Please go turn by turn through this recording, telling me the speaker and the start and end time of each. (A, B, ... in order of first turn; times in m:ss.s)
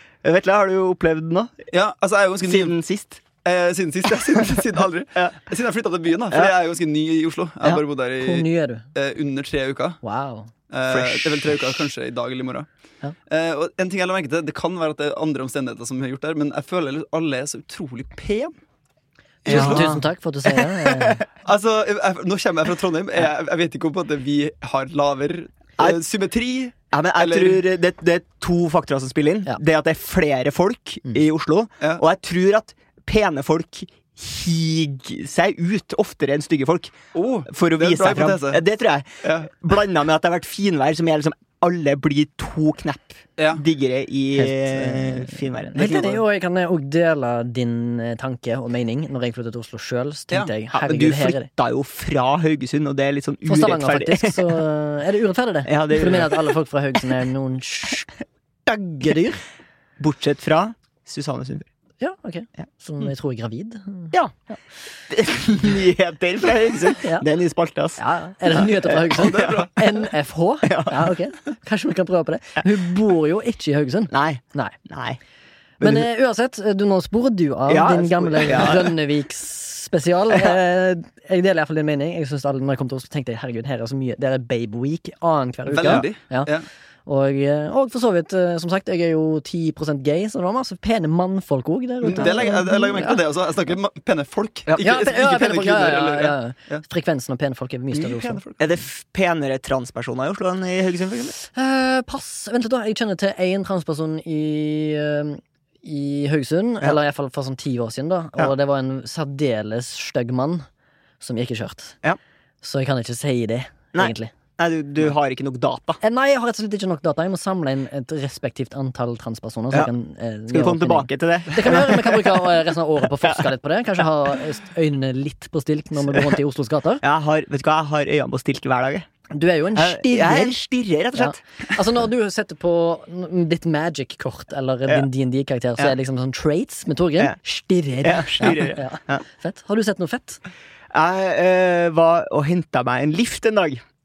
0:00.2-0:01.5 A
0:01.7-0:02.7 B
0:02.4-0:03.2 A
0:03.4-0:10.0 B
0:08.2-0:08.8 C
0:10.0-0:10.5 C
0:10.7-0:12.7 B
0:10.9-0:11.9 A
0:13.3-0:18.5 B
0:19.4-0:20.0 B
0:19.4-0:20.0 A
0:19.4-0:21.2 C
0:20.8-0:21.2 A
0:21.4-0:27.6 B
0:26.9-0:36.9 A
0:37.1-0:38.6 B
0:37.5-0:46.2 A
0:39.2-0:39.5 B
0:43.4-0:43.6 B
0:44.4-0:51.5 C
0:50.7-0:54.6 A
0:53.4-0:58.1 C
0:55.6-0:56.5 A
0:58.7-0:59.4 C
1:00.0-1:01.7 A
1:02.0-1:04.1 C
1:05.1-1:09.6 A
1:07.0-1:07.2 C
1:08.0-1:14.8 C
1:09.1-1:09.7 B
1:10.6-1:11.1 A
1:14.1-1:15.2 A
1:15.8-1:16.1 A
1:15.8-1:26.5 C
1:17.7-1:18.9 A
1:25.7-1:26.6 B
1:27.0-1:33.2 C
1:32.0-1:36.8 B
1:34.8-1:38.4 C
1:37.9-1:38.7 B
1:38.6-1:41.3 A
1:41.4-1:50.6 C
1:51.2-1:52.0 C
1:52.6-1:54.3 C
1:53.9-1:56.0 A
1:56.0-2:07.0 C
2:00.5-2:02.4 A
2:07.0-2:09.1 A
2:09.3-2:10.6 C
2:09.7-2:11.4 A
2:11.1-2:20.4 C
2:18.0-2:19.2 A
2:20.9-2:23.8 A